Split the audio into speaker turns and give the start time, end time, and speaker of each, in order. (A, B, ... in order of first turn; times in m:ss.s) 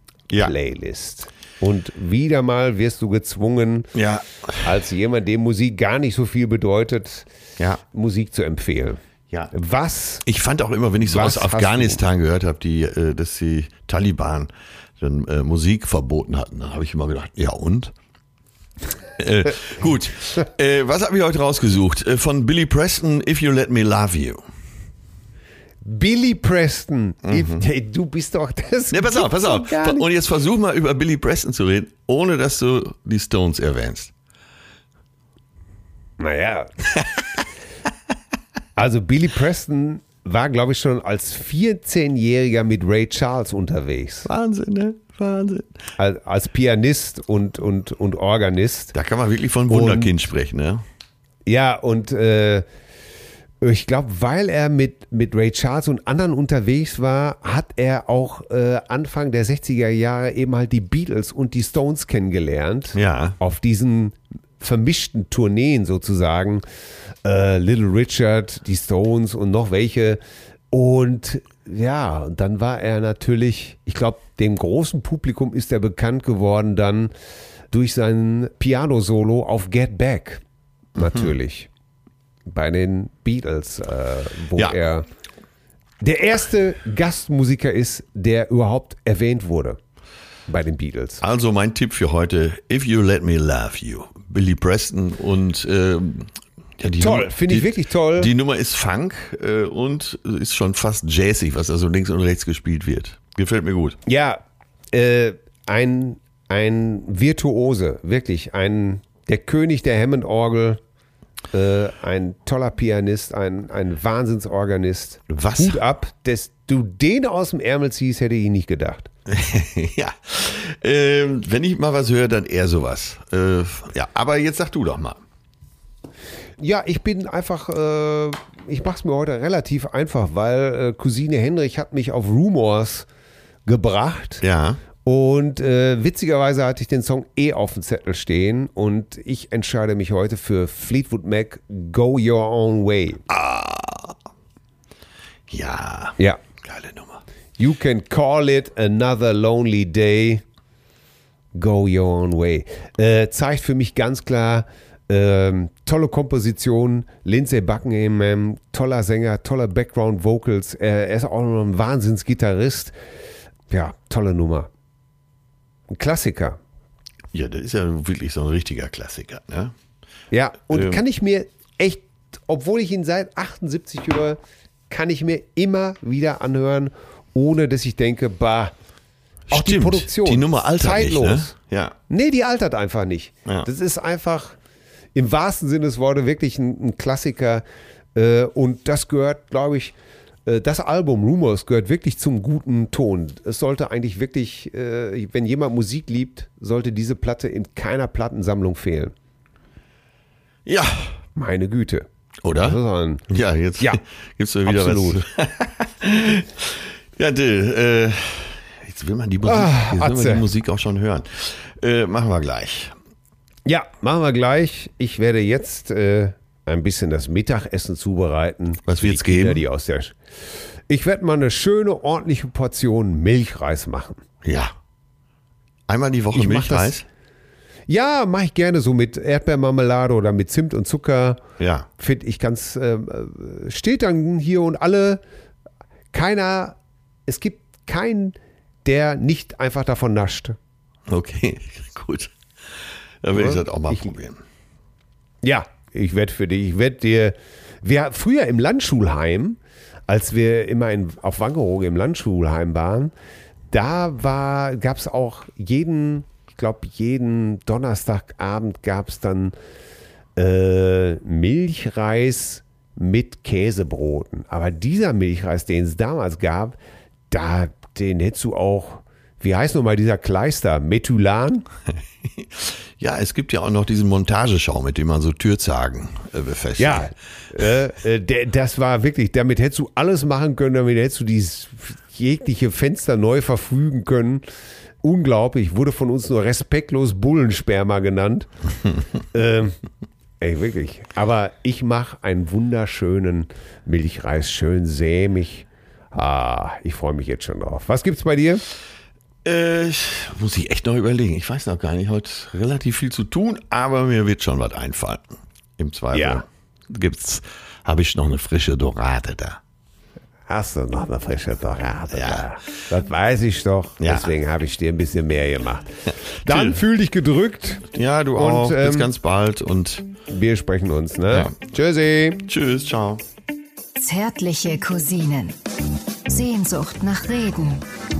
0:00.4-0:03.9 A
0:03.9-0:04.7 B
0:04.6-0:07.3 A
0:07.9-0:09.0 A
0:09.5-0:10.2 A
0:10.2-0:17.9 B
0:11.0-0:12.0 A
0:19.2-0:24.4 B
0:25.8-0:30.0 A
0:27.2-0:27.6 B
0:28.9-0:34.1 B
0:36.2-0:36.8 A
0:38.8-0:44.3 A
0:44.2-0:45.7 B
0:46.0-0:48.9 A
0:48.9-0:50.8 B
0:49.7-0:50.1 A
0:51.5-0:52.7 A
0:53.6-1:06.6 A
1:03.0-1:03.4 B
1:07.2-1:17.1 A
1:17.7-1:20.4 A
1:21.0-1:21.3 B
1:21.0-1:21.7 A
1:22.5-1:25.1 A
1:26.0-1:29.8 A
1:30.5-1:31.2 A
1:31.2-1:44.0 B
1:37.0-1:38.3 A
1:44.1-1:44.4 A
1:44.9-1:50.8 A
1:51.5-1:59.1 A
1:55.3-1:55.8 B
1:59.3-2:05.2 B
2:06.6-2:13.1 A
2:13.7-2:14.4 A
2:14.4-2:14.8 B
2:15.0-2:23.2 A
2:23.3-2:24.2 B
2:25.5-2:27.2 B
2:27.6-2:30.4 A
2:31.6-2:43.0 A
2:43.7-2:44.7 A
2:45.9-2:46.6 A
2:47.3-2:49.8 B
2:50.3-2:54.4 A
2:50.7-2:51.0 B
2:54.9-2:58.7 A
2:59.5-3:02.0 B
2:59.5-3:01.5 A
3:02.1-3:04.6 A
3:05.2-3:07.6 A
3:08.2-3:10.0 A
3:10.5-3:19.1 A
3:20.7-3:21.2 B
3:21.4-3:23.3 A
3:22.4-3:33.0 B
3:24.7-3:25.2 A
3:29.4-3:30.4 A
3:33.7-3:40.2 A
3:38.9-3:39.6 B
3:40.9-3:44.2 A
3:44.4-3:44.8 B
3:45.9-3:47.1 B
3:46.3-3:47.0 A
3:47.9-3:51.4 A
3:51.6-3:51.9 B
3:52.0-3:55.2 A
3:56.1-4:00.6 A
4:01.1-4:02.3 B
4:03.2-4:04.4 B
4:03.4-4:04.1 A
4:05.4-4:13.1 A
4:13.7-4:19.6 A
4:20.4-4:26.8 A
4:27.3-4:31.7 A
4:32.4-4:37.1 B
4:36.8-4:44.5 A
4:45.0-4:48.5 A
4:49.3-4:49.8 A
4:50.4-4:58.6 A
4:59.4-5:05.2 B
5:05.8-5:09.6 B
5:06.1-5:06.4 A
5:10.5-5:15.9 A
5:12.1-5:12.5 B
5:14.0-5:14.3 B
5:16.1-5:16.8 B
5:16.4-5:19.1 A
5:17.9-5:20.1 B
5:20.3-5:22.4 A
5:22.5-5:23.2 B
5:24.0-5:25.6 C
5:26.3-5:27.9 C